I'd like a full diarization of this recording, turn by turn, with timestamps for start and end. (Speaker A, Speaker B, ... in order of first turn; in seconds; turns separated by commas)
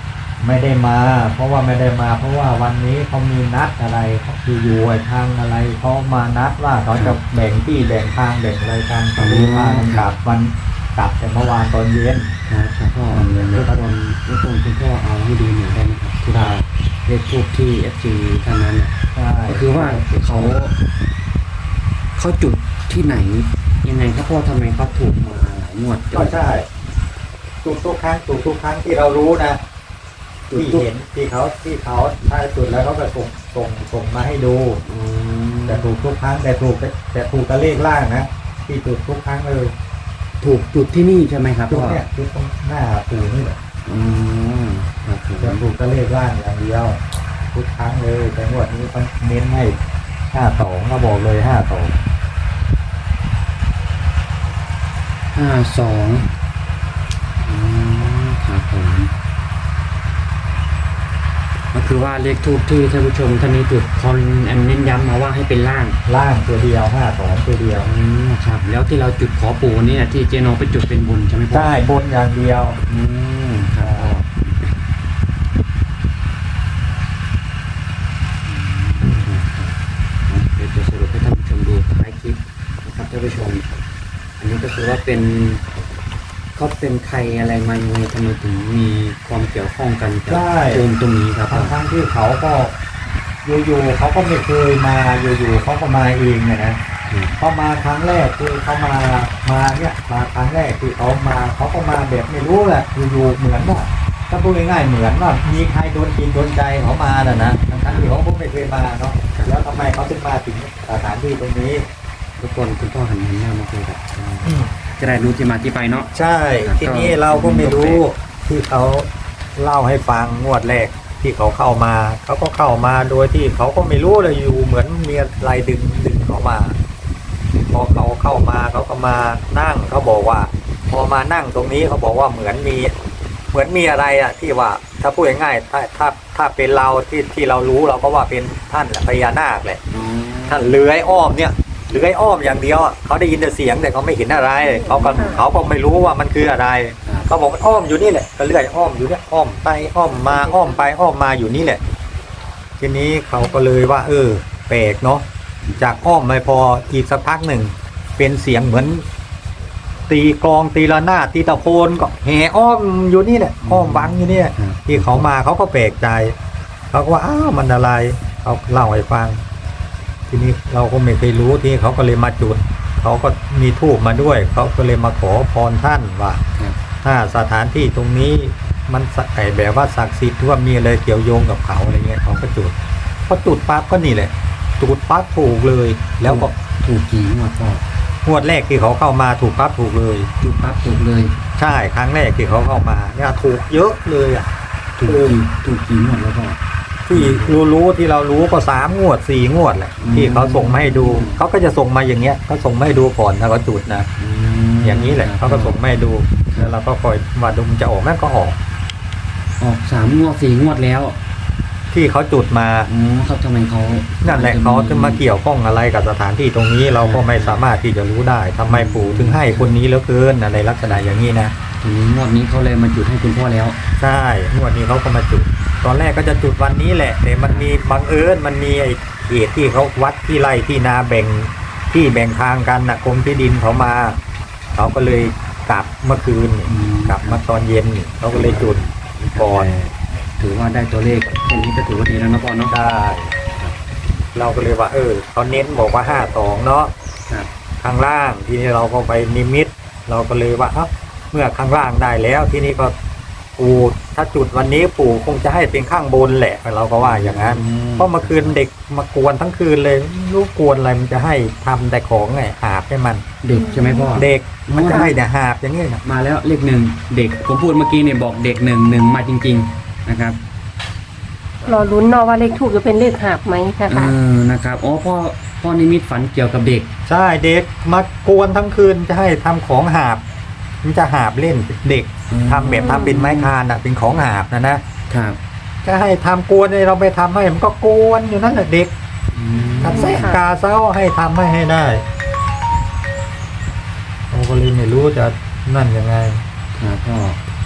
Speaker A: 0.4-12.3, Speaker B: 9.2-10.1, Speaker B: 12.5-18.9, Speaker A: 13.1-13.8, Speaker A: 16.4-16.6, Speaker A: 19.1-20.6, Speaker B: 19.5-20.7, Speaker B: 22.2-26.4, Speaker A: 26.1-26.7, Speaker A: 27.6-29.6, Speaker B: 30.5-30.9, Speaker A: 30.5-34.8, Speaker B: 34.8-35.9, Speaker A: 35.7-39.7, Speaker B: 40.4-42.0, Speaker A: 41.7-43.6, Speaker B: 43.9-45.6, Speaker A: 45.4-49.8, Speaker A: 50.3-52.0, Speaker B: 55.3-56.3, Speaker B: 57.4-59.1, Speaker B: 61.7-66.0, Speaker A: 66.1-67.9, Speaker B: 67.8-71.8, Speaker A: 71.5-72.8, Speaker B: 72.9-74.7, Speaker A: 73.8-74.1, Speaker B: 78.5-79.8, Speaker A: 79.0-79.3, Speaker B: 80.3-83.7, Speaker B: 84.4-85.6, Speaker B: 86.6-91.8, Speaker A: 90.3-90.8, Speaker A: 91.5-92.8, Speaker A: 93.4-96.8, Speaker B: 97.1-97.4, Speaker A: 97.4-111.8, Speaker B: 107.2-108.1, Speaker B: 112.4-118.0, Speaker A: 114.4-114.7, Speaker A: 116.1-126.8, Speaker A: 127.7-132.9, Speaker A: 133.5-139.8, Speaker B: 139.9-140.8, Speaker A: 140.5-151.8, Speaker B: 144.8-145.4, Speaker C: 145.2-145.4, Speaker B: 150.1-150.6, Speaker A: 152.8-155.2, Speaker A: 155.8-159.1, Speaker A: 160.1-166.3, Speaker B: 163.6-165.3, Speaker A: 166.9-169.4, Speaker A: 170.3-176.4, Speaker A: 177.0-182.8, Speaker A: 183.3-186.5, Speaker B: 186.2-187.8, Speaker A: 188.2-190.3, Speaker B: 190.4-191.3, Speaker A: 191.6-194.5, Speaker B: 195.0-196.6, Speaker A: 195.1-195.4, Speaker A: 197.1-204.1, Speaker B: 197.1-197.6, Speaker B: 200.0-201.4, Speaker B: 204.2-205.8, Speaker A: 204.8-208.6, Speaker B: 209.6-211.2, Speaker A: 211.9-212.9, Speaker B: 212.9-215.2, Speaker A: 214.2-221.6, Speaker B: 217.0-217.6, Speaker B: 218.7-219.7, Speaker B: 221.8-223.8, Speaker A: 224.0-234.2, Speaker B: 227.4-227.7, Speaker A: 234.8-238.8, Speaker B: 236.7-237.4, Speaker B: 238.3-242.7, Speaker A: 239.4-239.8, Speaker A: 242.7-243.3, Speaker B: 243.5-243.7, Speaker A: 244.3-246.9, Speaker A: 247.8-252.9, Speaker A: 253.6-263.2, Speaker B: 257.0-258.6, Speaker B: 263.4-265.1, Speaker C: 263.6-264.2, Speaker A: 264.1-266.0, Speaker B: 266.1-270.4, Speaker C: 271.6-274.1, Speaker B: 273.9-276.9, Speaker A: 277.1-280.2, Speaker A: 280.8-284.8, Speaker B: 282.3-283.5, Speaker C: 282.7-283.2, Speaker B: 285.1-285.4, Speaker A: 285.8-288.9, Speaker B: 289.3-290.3, Speaker A: 289.8-292.1, Speaker C: 289.8-290.4, Speaker A: 294.3-296.4, Speaker B: 296.8-297.4